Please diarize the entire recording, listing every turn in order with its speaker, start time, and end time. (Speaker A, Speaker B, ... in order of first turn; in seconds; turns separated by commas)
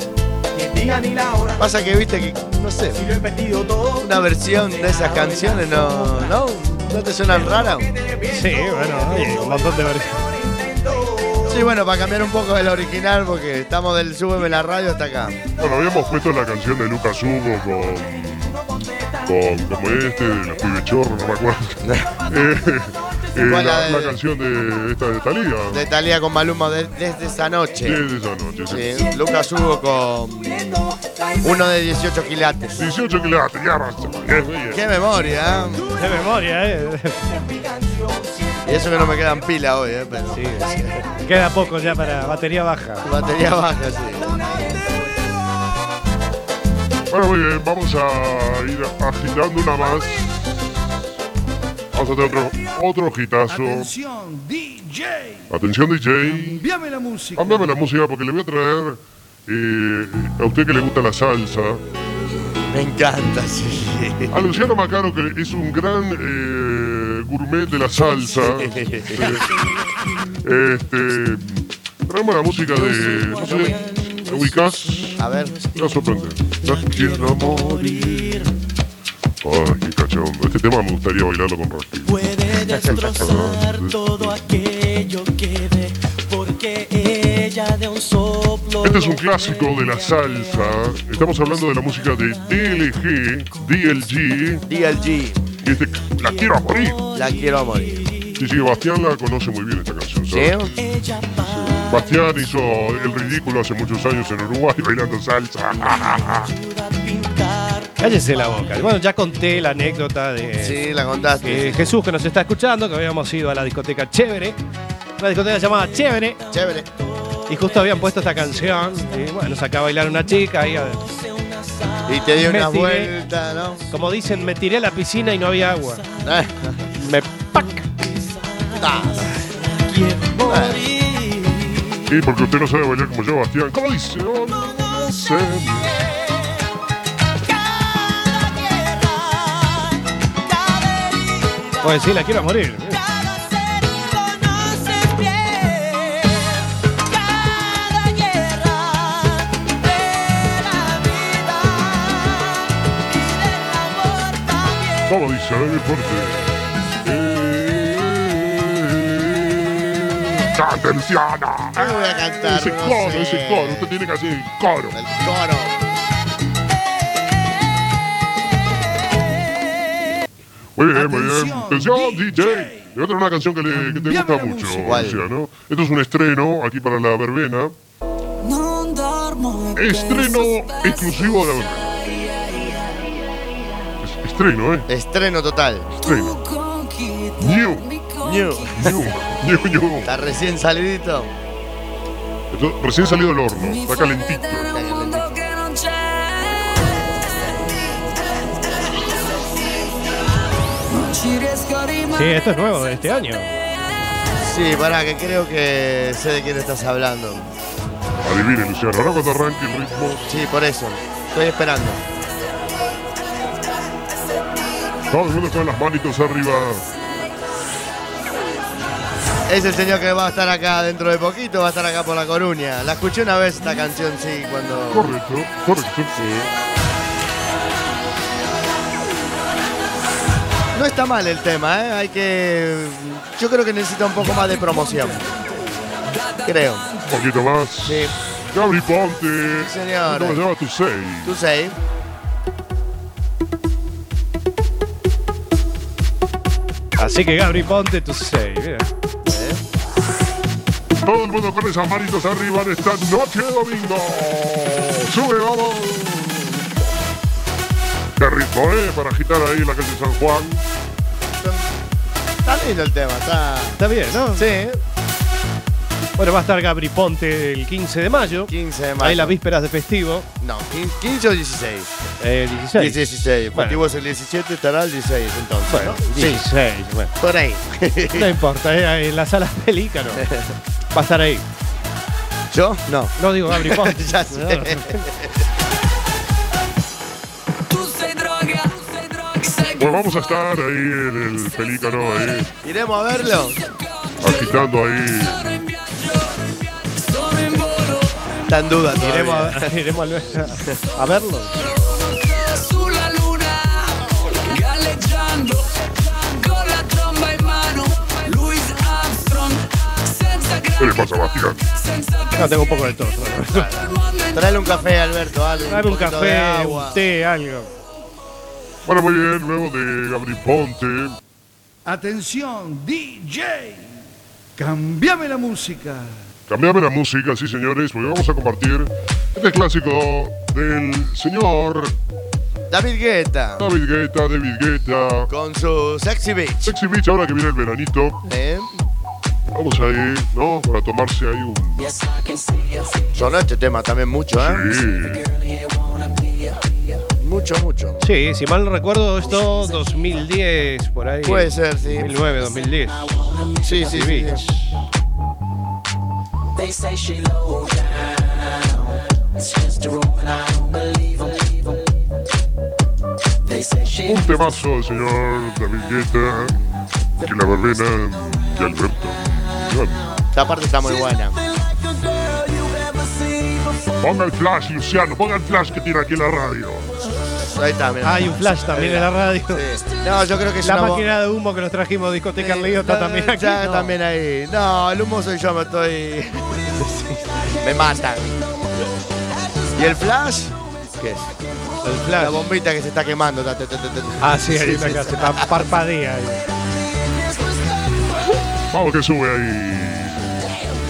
Speaker A: 0.6-1.6, Speaker B: 1.6-3.0, Speaker A: 3.0-6.4, Speaker B: 4.0-7.9, Speaker A: 7.3-11.7, Speaker C: 8.3-10.1, Speaker B: 11.5-15.4, Speaker A: 15.4-16.4, Speaker D: 15.6-18.6, Speaker A: 17.6-20.9, Speaker D: 19.2-25.8, Speaker B: 21.8-22.1, Speaker A: 22.0-23.6, Speaker B: 23.4-24.2, Speaker B: 25.7-28.1, Speaker A: 26.9-27.8, Speaker D: 27.8-29.0, Speaker A: 28.4-32.7, Speaker B: 28.7-30.8, Speaker B: 31.4-32.9, Speaker D: 32.8-34.8, Speaker B: 34.7-35.9, Speaker A: 35.7-39.5, Speaker C: 36.0-37.2, Speaker B: 38.6-41.0, Speaker C: 40.3-43.1, Speaker A: 40.5-42.5, Speaker A: 43.0-43.4, Speaker B: 43.0-44.4, Speaker A: 44.1-45.6, Speaker D: 47.1-50.3, Speaker D: 51.9-53.9, Speaker E: 53.5-55.5, Speaker D: 55.5-56.6, Speaker E: 56.2-57.8, Speaker D: 57.4-61.8, Speaker B: 62.7-64.5, Speaker D: 64.3-69.5, Speaker A: 68.1-69.7, Speaker B: 68.4-69.4, Speaker D: 70.4-78.5, Speaker A: 72.6-78.6, Speaker B: 73.4-73.7, Speaker B: 75.2-75.6, Speaker D: 79.4-84.4, Speaker A: 82.1-93.0, Speaker B: 82.8-83.2, Speaker D: 88.8-94.6, Speaker B: 94.7-95.5, Speaker D: 95.6-97.0, Speaker A: 96.0-98.5, Speaker B: 97.1-98.1, Speaker D: 98.4-100.6, Speaker B: 100.3-100.7, Speaker A: 100.7-102.8, Speaker D: 101.3-106.5, Speaker A: 105.7-109.0, Speaker C: 108.0-110.8, Speaker B: 110.6-111.9, Speaker C: 111.4-114.6, Speaker C: 115.2-116.4, Speaker A: 115.7-116.9, Speaker B: 116.5-116.9, Speaker A: 117.5-119.5, Speaker C: 117.5-121.0, Speaker A: 121.0-122.4, Speaker B: 122.1-123.8, Speaker C: 122.4-123.2, Speaker C: 123.9-126.0, Speaker B: 126.2-126.7, Speaker C: 127.0-127.9, Speaker A: 127.2-132.1, Speaker B: 128.8-129.3, Speaker B: 130.4-130.8, Speaker D: 132.1-136.0, Speaker A: 134.5-136.6, Speaker A: 137.5-155.2, Speaker C: 141.8-143.0, Speaker D: 155.1-156.5, Speaker D: 157.0-165.0, Speaker B: 161.8-163.9, Speaker B: 164.9-165.8, Speaker D: 170.8-177.7, Speaker E: 170.9-172.9, Speaker E: 173.7-175.0, Speaker B: 174.8-175.2, Speaker A: 178.4-183.2, Speaker D: 179.7-181.9, Speaker D: 184.0-184.9, Speaker B: 184.9-185.9, Speaker A: 186.0-189.1, Speaker D: 186.0-186.4, Speaker D: 187.4-187.9, Speaker B: 188.2-188.8, Speaker D: 188.8-190.1, Speaker B: 190.1-191.3, Speaker D: 192.5-194.7, Speaker A: 193.5-196.8, Speaker B: 194.7-195.4, Speaker A: 198.9-199.9, Speaker A: 200.9-202.4, Speaker C: 202.1-203.6, Speaker B: 204.4-207.5, Speaker D: 208.2-210.3, Speaker B: 210.3-212.0, Speaker D: 215.1-216.9, Speaker B: 219.5-225.1, Speaker D: 224.9-226.1, Speaker B: 226.1-226.5, Speaker B: 230.7-235.2, Speaker B: 236.4-236.9, Speaker D: 237.1-241.3, Speaker B: 237.8-238.1, Speaker B: 239.6-240.4, Speaker B: 241.2-241.8, Speaker C: 247.0-248.9, Speaker B: 249.2-249.6, Speaker D: 251.1-256.6, Speaker D: 258.2-260.6, Speaker B: 261.4-261.7, Speaker B: 262.4-263.8, Speaker C: 263.8-264.6, Speaker B: 264.3-264.8, Speaker C: 266.2-270.3, Speaker B: 268.4-269.4, Speaker B: 270.4-271.9, Speaker C: 272.2-273.8, Speaker B: 272.8-276.5, Speaker C: 275.7-277.1, Speaker B: 277.2-278.4, Speaker C: 278.1-280.3, Speaker B: 280.2-280.5, Speaker C: 280.9-281.4, Speaker B: 282.5-285.3, Speaker C: 283.2-285.1, Speaker A: 287.7-289.8, Speaker D: 289.7-292.5, Speaker B: 292.6-293.6, Speaker D: 294.2-295.6, Speaker A: 295.6-296.4, Speaker A: 296.9-298.2, Speaker B: 298.5-299.7, Speaker C: 298.9-301.6, Speaker A: 301.7-305.7, Speaker A: 306.2-310.9, Speaker D: 310.8-311.6, Speaker A: 311.8-312.5, Speaker C: 312.4-313.7, Speaker B: 313.5-317.1, Speaker A: 313.8-315.0, Speaker C: 315.7-317.7, Speaker D: 318.9-321.2, Speaker E: 321.9-324.0, Speaker E: 324.6-326.2, Speaker D: 326.5-332.0, Speaker B: 332.7-333.7, Speaker D: 333.6-335.3, Speaker B: 335.3-336.7, Speaker D: 336.6-338.2, Speaker B: 338.2-338.7, Speaker D: 339.5-341.9, Speaker A: 341.8-343.2, Speaker B: 343.1-344.7, Speaker D: 344.4-345.2, Speaker A: 344.7-347.0, Speaker B: 347.2-348.1, Speaker C: 348.0-354.7, Speaker A: 349.2-350.3, Speaker B: 351.2-352.1, Speaker A: 352.1-354.0, Speaker B: 353.6-354.4, Speaker A: 356.6-361.9, Speaker A: 363.5-364.6, Speaker D: 364.0-366.6, Speaker D: 367.2-370.1, Speaker B: 370.3-371.4, Speaker A: 370.8-374.2, Speaker D: 374.0-376.9, Speaker A: 377.1-377.4, Speaker B: 377.4-381.1, Speaker C: 378.0-379.6, Speaker A: 378.2-378.7, Speaker C: 380.6-383.9, Speaker B: 382.4-387.0, Speaker A: 386.7-388.9, Speaker B: 387.6-388.4, Speaker A: 389.5-390.2, Speaker B: 389.8-391.3, Speaker C: 391.8-392.5, Speaker B: 392.1-395.6, Speaker C: 394.2-396.4, Speaker A: 397.1-398.0, Speaker D: 398.7-400.4